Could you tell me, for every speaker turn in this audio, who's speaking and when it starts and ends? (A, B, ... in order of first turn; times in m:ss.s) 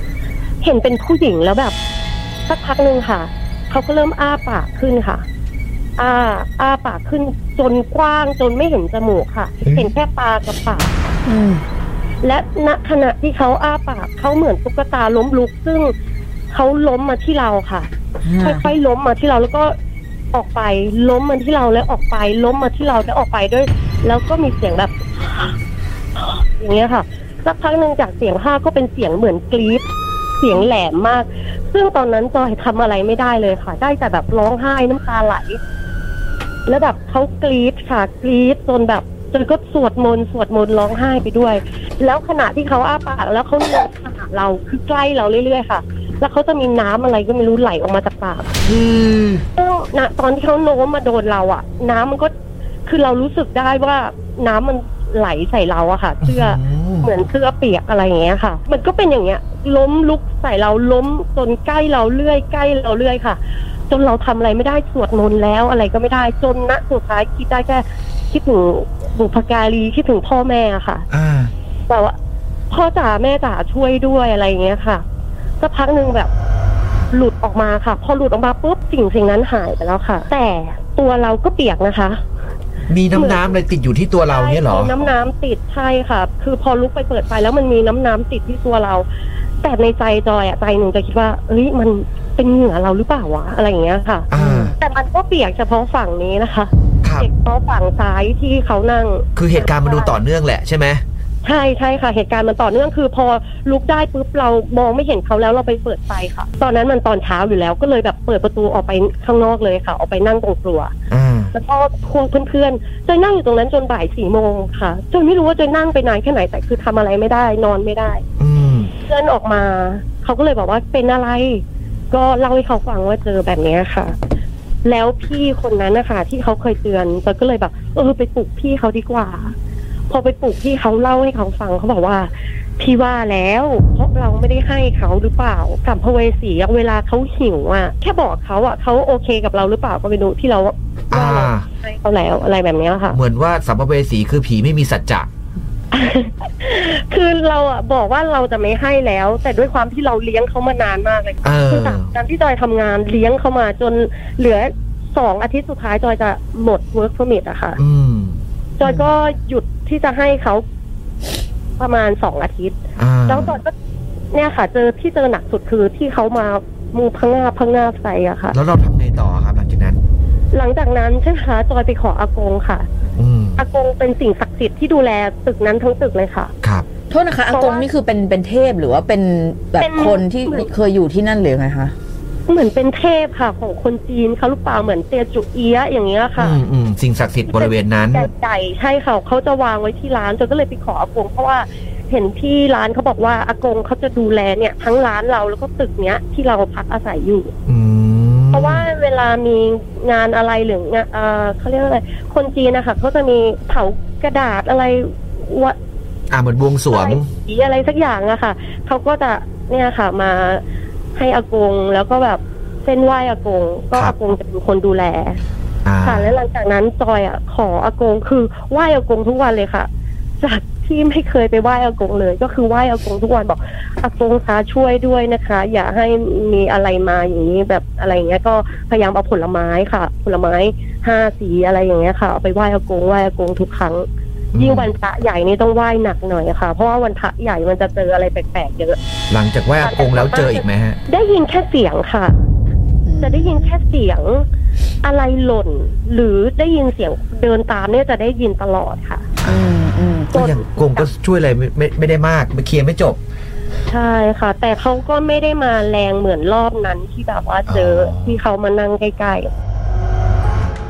0:00.6-0:01.8 A
0:02.5-0:05.2 A
0:06.0-0:10.9 A
0:09.6-0:09.9 B
0:11.2-0:11.6 C
0:12.2-0:15.9 A
0:16.5-0:19.7 A
0:18.2-0:18.7 C
0:20.3-0:25.5 A
0:26.2-0:29.8 A
0:30.4-0:35.6 A
0:36.6-0:48.5 A
0:48.6-0:49.4 B
0:49.6-0:52.3 A
0:52.8-1:03.4 A
0:56.2-0:57.1 B
1:03.9-1:11.0 A
1:11.1-1:11.5 B
1:11.9-1:12.1 A
1:12.7-1:15.0 A
1:15.6-1:16.3 A
1:17.1-1:22.2 A
1:22.9-1:24.9 B
1:23.1-1:23.5 A
1:24.3-1:29.0 A
1:29.6-1:40.2 A
1:34.3-1:34.7 B
1:37.0-1:37.3 B
1:39.4-1:41.0 B
1:41.4-1:50.9 A
1:51.1-1:51.5 B
1:51.5-1:58.2 A
1:58.4-1:58.9 B
1:59.0-2:04.2 A
2:04.8-2:09.5 A
2:10.1-2:23.2 A
2:21.1-2:21.7 B
2:23.1-2:25.3 B
2:25.9-2:37.8 A
2:31.4-2:32.1 B
2:37.8-2:38.4 B
2:38.8-2:40.6 A
2:41.8-2:42.8 A
2:43.0-2:43.6 B
2:43.3-2:43.7 A
2:44.3-2:48.6 A
2:48.5-2:50.0 B
2:50.5-2:52.9 A
2:53.2-2:53.6 B
2:53.6-2:56.5 A
2:57.1-3:01.9 C
2:57.5-2:57.9 A
2:59.8-3:00.7 A
3:02.5-3:06.6 A
3:06.4-3:08.3 B
3:07.5-3:17.5 A
3:17.7-3:18.8 B
3:18.5-3:25.8 A
3:26.3-3:27.3 B
3:26.9-3:30.6 A
3:31.1-3:35.4 A
3:35.8-3:36.4 B
3:36.0-3:39.9 A
3:40.4-3:54.0 A
3:54.5-3:54.9 B
3:54.6-3:59.0 A
3:59.3-4:01.0 B
3:59.8-4:02.3 A
4:03.0-4:03.7 C
4:03.2-4:04.4 A
4:05.0-4:09.3 A
4:09.4-4:09.7 B
4:09.4-4:10.3 C
4:10.3-4:13.2 B
4:10.3-4:11.1 A
4:13.9-4:19.5 A
4:17.7-4:18.4 B